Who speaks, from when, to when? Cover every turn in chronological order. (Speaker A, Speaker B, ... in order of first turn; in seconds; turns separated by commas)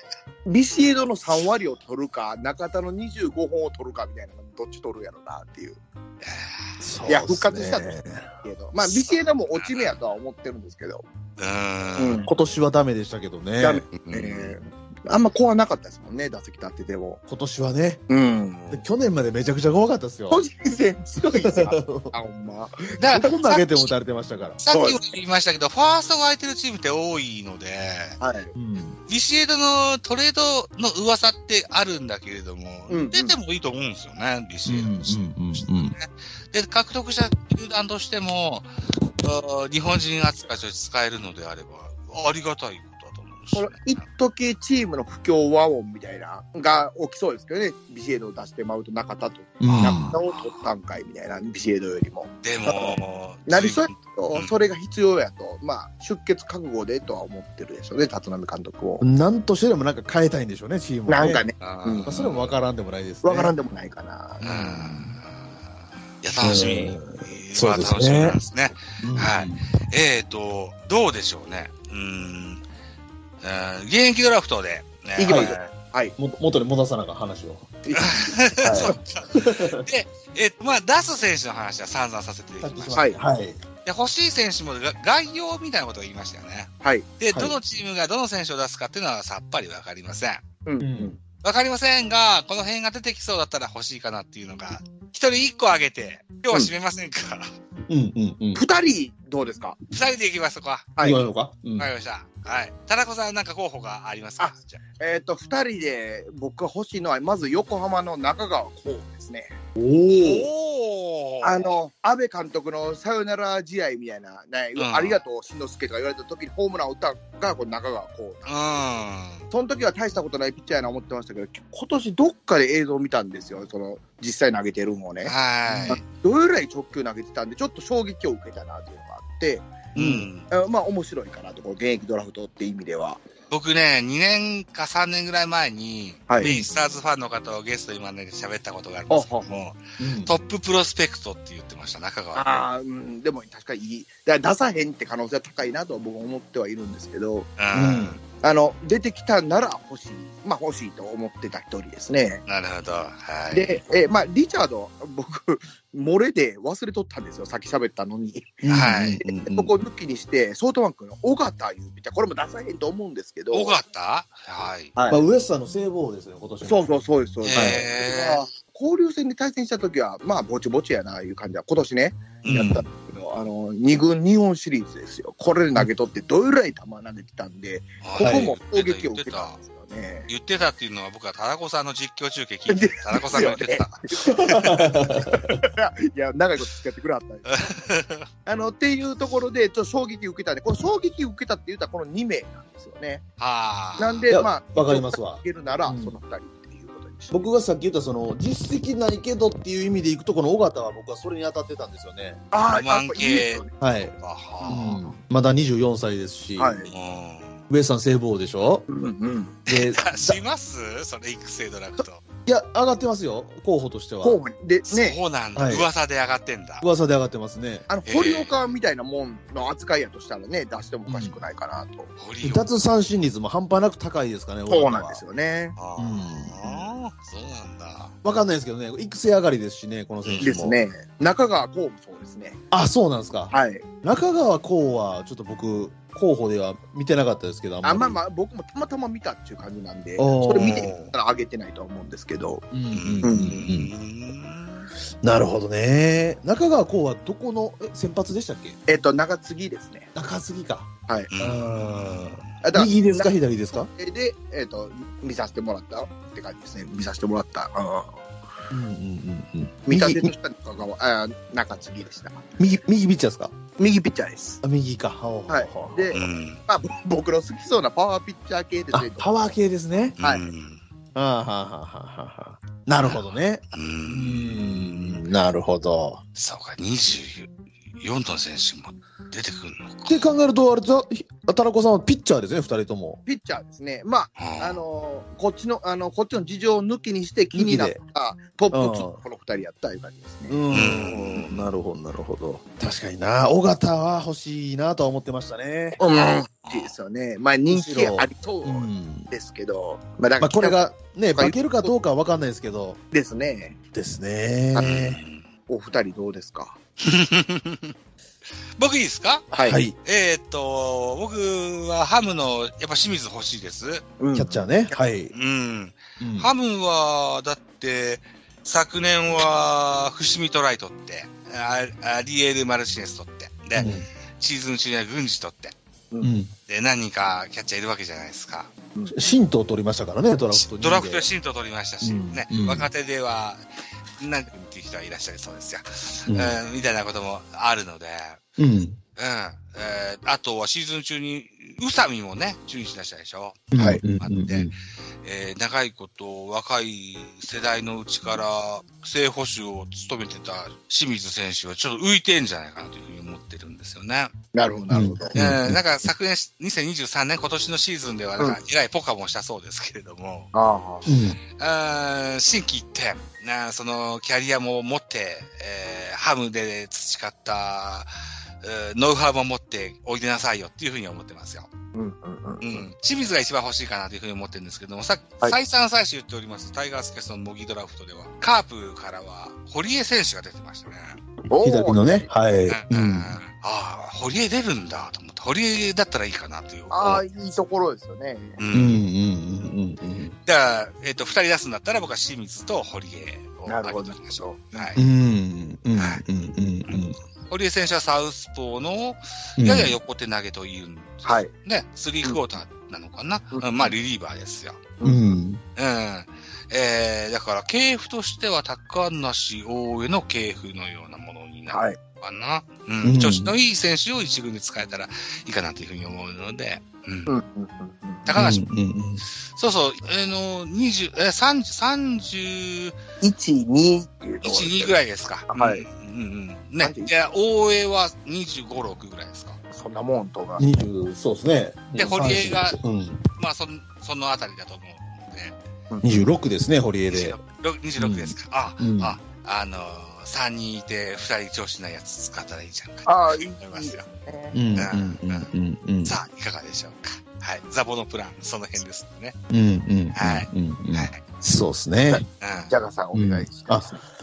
Speaker A: 0.5-5.8, Speaker B: 6.2-6.7, Speaker C: 6.8-8.3, Speaker A: 7.1-11.1, Speaker B: 8.9-10.0, Speaker B: 11.4-12.3, Speaker A: 12.0-12.3, Speaker C: 12.2-13.8, Speaker A: 13.6-17.2, Speaker B: 14.0-14.6, Speaker C: 17.3-18.0, Speaker A: 18.1-18.9, Speaker C: 18.7-20.4, Speaker A: 20.3-23.2, Speaker C: 21.3-22.1, Speaker B: 23.0-23.9, Speaker C: 23.1-24.6, Speaker B: 24.6-28.2, Speaker A: 24.7-25.0, Speaker A: 28.2-28.5, Speaker C: 28.6-29.0, Speaker B: 29.1-38.7, Speaker A: 32.9-33.4, Speaker C: 34.6-36.0, Speaker B: 39.2-44.0, Speaker A: 43.5-59.1, Speaker C: 49.6-50.2, Speaker B: 49.7-50.7, Speaker B: 52.4-54.5, Speaker C: 59.0-61.4, Speaker A: 61.1-62.1, Speaker B: 61.6-62.5, Speaker C: 62.1-63.5, Speaker A: 63.2-64.7, Speaker B: 64.4-65.6, Speaker C: 64.5-65.1, Speaker B: 66.2-72.6, Speaker C: 66.4-68.4, Speaker C: 69.0-69.6, Speaker B: 73.4-75.7, Speaker A: 75.2-76.1, Speaker C: 75.2-75.6, Speaker C: 76.2-77.7, Speaker A: 77.8-79.0, Speaker B: 78.0-83.2, Speaker C: 78.6-79.8, Speaker C: 82.6-83.6, Speaker A: 83.0-83.2, Speaker B: 83.8-90.4, Speaker C: 87.3-87.6, Speaker A: 90.6-91.2, Speaker C: 90.8-91.2, Speaker B: 91.4-97.5, Speaker C: 97.9-98.6, Speaker A: 98.5-99.8, Speaker B: 99.9-100.9, Speaker A: 101.0-101.2, Speaker C: 101.0-101.9, Speaker B: 101.8-104.8, Speaker A: 104.4-109.5, Speaker C: 109.8-110.5, Speaker B: 110.1-111.8, Speaker A: 111.4-118.8, Speaker B: 114.8-115.2, Speaker B: 118.5-119.5, Speaker A: 119.5-125.3, Speaker B: 125.2-126.0, Speaker C: 125.7-126.0, Speaker A: 125.9-129.7, Speaker C: 129.9-130.3, Speaker B: 129.9-130.5, Speaker A: 130.5-133.2, Speaker B: 133.5-142.6, Speaker A: 136.3-136.6, Speaker A: 139.1-139.5, Speaker C: 140.0-140.3, Speaker A: 142.3-147.5, Speaker B: 147.6-148.2, Speaker C: 147.7-148.2, Speaker A: 148.4-152.4, Speaker B: 152.5-153.8, Speaker A: 153.5-163.8, Speaker C: 158.6-159.7, Speaker B: 158.7-159.2, Speaker B: 163.5-164.9, Speaker A: 164.9-165.2, Speaker C: 165.1-166.9, Speaker A: 166.6-180.3, Speaker B: 167.4-168.4, Speaker C: 167.5-167.8, Speaker B: 172.4-172.8, Speaker B: 178.0-179.6, Speaker C: 178.2-178.5, Speaker B: 180.3-184.6, Speaker A: 182.7-187.6, Speaker C: 184.3-185.6, Speaker B: 187.5-188.3, Speaker A: 188.4-193.2, Speaker B: 193.4-194.3, Speaker A: 194.0-197.4, Speaker C: 194.3-196.1, Speaker C: 197.3-202.4, Speaker A: 202.5-203.7, Speaker B: 202.7-204.9, Speaker C: 203.8-204.1, Speaker A: 204.6-205.2, Speaker C: 204.7-206.8, Speaker A: 206.6-206.9, Speaker B: 206.9-207.6, Speaker C: 207.7-208.9, Speaker A: 208.9-209.6, Speaker C: 209.7-210.4, Speaker B: 209.7-212.2, Speaker C: 212.4-214.4, Speaker A: 214.2-215.2, Speaker B: 214.9-216.8, Speaker C: 215.6-215.9, Speaker C: 216.8-217.9, Speaker A: 217.9-222.1, Speaker B: 218.1-218.5, Speaker C: 221.1-221.4, Speaker B: 222.2-222.7, Speaker C: 222.4-225.2, Speaker A: 224.7-225.8, Speaker B: 225.8-228.1, Speaker C: 226.0-226.9, Speaker C: 228.2-230.8, Speaker B: 230.2-230.5, Speaker A: 230.4-232.6, Speaker C: 232.7-238.2, Speaker A: 233.5-233.8, Speaker A: 237.8-242.7, Speaker C: 240.2-241.1, Speaker B: 240.8-241.1, Speaker C: 242.7-243.9, Speaker B: 242.9-244.9, Speaker A: 243.2-243.6, Speaker C: 245.2-248.8, Speaker A: 248.9-250.1, Speaker C: 250.1-253.9, Speaker B: 251.3-252.5, Speaker A: 252.6-253.3, Speaker A: 253.9-258.2, Speaker C: 258.7-260.3, Speaker A: 259.9-262.5, Speaker C: 262.6-263.6, Speaker A: 263.8-264.6, Speaker C: 264.6-266.2, Speaker A: 265.5-269.5, Speaker B: 266.1-266.6, Speaker C: 268.9-270.1, Speaker B: 270.2-270.8, Speaker A: 270.2-270.5, Speaker C: 271.1-276.2, Speaker B: 273.0-275.2, Speaker B: 276.4-280.3, Speaker C: 280.1-283.2, Speaker A: 283.3-290.6, Speaker B: 284.4-284.8, Speaker C: 287.5-288.0, Speaker C: 288.7-289.2, Speaker C: 290.5-296.0, Speaker B: 290.7-291.7, Speaker A: 296.0-301.9, Speaker B: 296.7-296.9, Speaker C: 297.7-299.3, Speaker C: 300.4-303.0, Speaker A: 303.1-303.8, Speaker C: 303.9-305.2, Speaker A: 304.7-305.0, Speaker B: 304.8-305.4, Speaker A: 305.7-306.8, Speaker B: 307.0-307.9, Speaker B: 308.8-314.1, Speaker A: 309.5-309.8, Speaker C: 309.6-309.9, Speaker A: 314.2-314.9, Speaker C: 314.3-315.3, Speaker B: 315.3-325.7, Speaker C: 316.2-316.5, Speaker C: 323.8-324.1, Speaker C: 326.2-326.5, Speaker B: 326.7-328.7, Speaker A: 328.9-329.2, Speaker C: 329.1-331.3, Speaker B: 330.5-333.6, Speaker C: 332.0-332.9, Speaker B: 334.2-338.4, Speaker C: 336.3-336.6, Speaker C: 338.6-339.0, Speaker B: 339.2-354.3, Speaker C: 343.7-344.7, Speaker A: 343.8-344.0, Speaker A: 354.5-355.4, Speaker C: 354.9-355.8, Speaker B: 355.3-360.5, Speaker A: 360.5-361.1, Speaker C: 361.1-361.4, Speaker B: 361.6-368.1, Speaker B: 368.6-371.7, Speaker A: 371.9-372.9, Speaker B: 372.6-381.2, Speaker A: 381.5-382.3, Speaker C: 381.6-383.4, Speaker B: 382.7-387.2, Speaker A: 386.9-388.6, Speaker B: 388.6-389.0, Speaker C: 388.7-390.4, Speaker B: 390.4-395.0, Speaker A: 393.6-394.9, Speaker C: 394.9-397.2, Speaker B: 396.0-396.2, Speaker B: 397.5-404.8, Speaker C: 399.6-400.0, Speaker A: 401.2-401.5, Speaker A: 403.5-403.9, Speaker C: 405.0-405.6, Speaker B: 405.8-417.3, Speaker A: 411.7-412.0, Speaker C: 413.0-413.5, Speaker A: 417.3-418.3, Speaker B: 418.2-418.6, Speaker C: 418.4-419.2, Speaker B: 419.4-422.9, Speaker A: 423.2-424.9, Speaker B: 424.4-429.6, Speaker A: 425.5-425.9, Speaker A: 426.8-427.1, Speaker A: 429.7-430.6, Speaker C: 430.6-433.2, Speaker B: 431.9-432.8, Speaker B: 433.4-435.6, Speaker C: 436.0-437.4, Speaker B: 437.1-444.1, Speaker C: 438.0-439.2, Speaker A: 443.1-444.6, Speaker C: 444.5-446.1, Speaker B: 444.8-445.5, Speaker B: 446.1-449.4, Speaker C: 449.5-452.2, Speaker B: 450.1-451.2, Speaker A: 452.1-454.0, Speaker B: 452.4-452.7, Speaker C: 453.1-453.9